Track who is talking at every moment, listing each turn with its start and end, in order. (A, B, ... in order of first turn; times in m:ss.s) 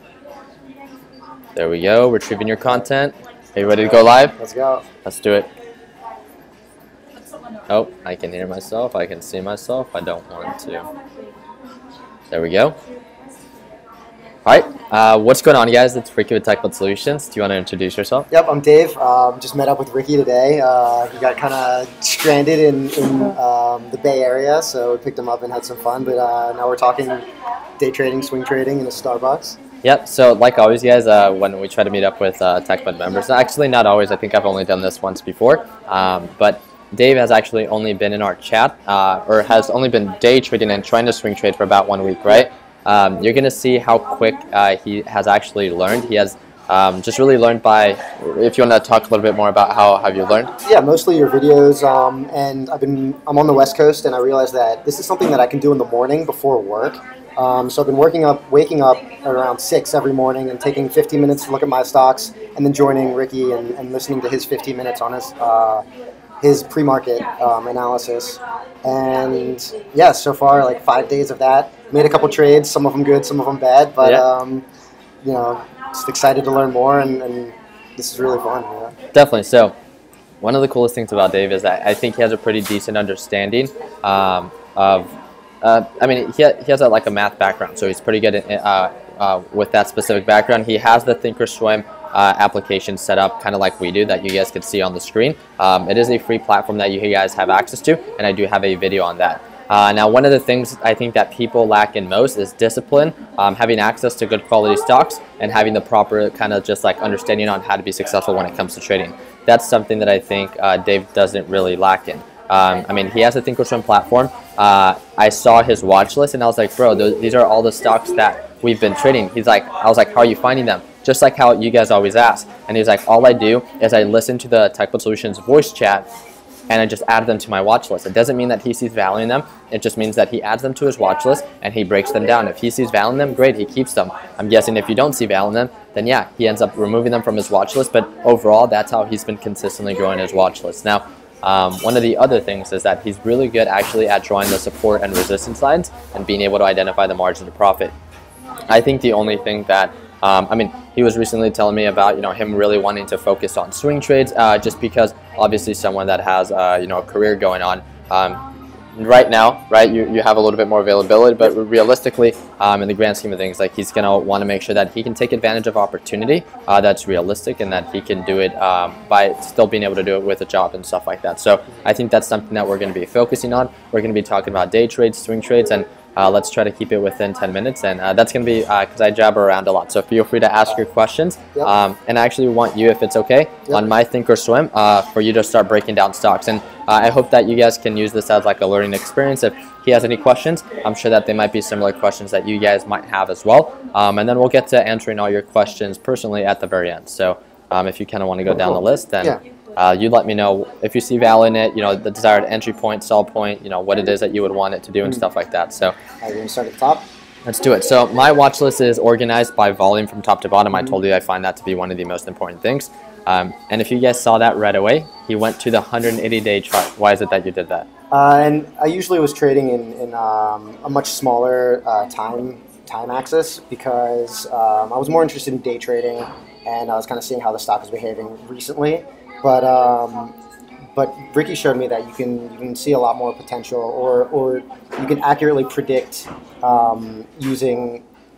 0:01.6-0:04.4 A
0:03.8-0:04.9 B
0:05.0-0:05.5 A
0:07.7-0:10.9 A
0:12.3-0:12.8 A
0:14.5-0:18.3 A
0:18.3-0:27.3 B
0:27.8-0:29.6 B
0:29.8-0:50.5 A
0:50.6-1:05.9 B
1:06.4-1:14.6 B
1:15.2-1:19.0 B
1:19.1-1:19.8 A
1:20.4-2:06.1 A
2:06.7-2:27.9 A
2:28.7-2:38.4 A
2:39.0-3:26.0 A
3:18.7-3:19.4 B
3:26.2-3:27.1 B
3:27.5-3:37.9 A
3:38.1-3:50.4 B
3:51.0-3:58.1 B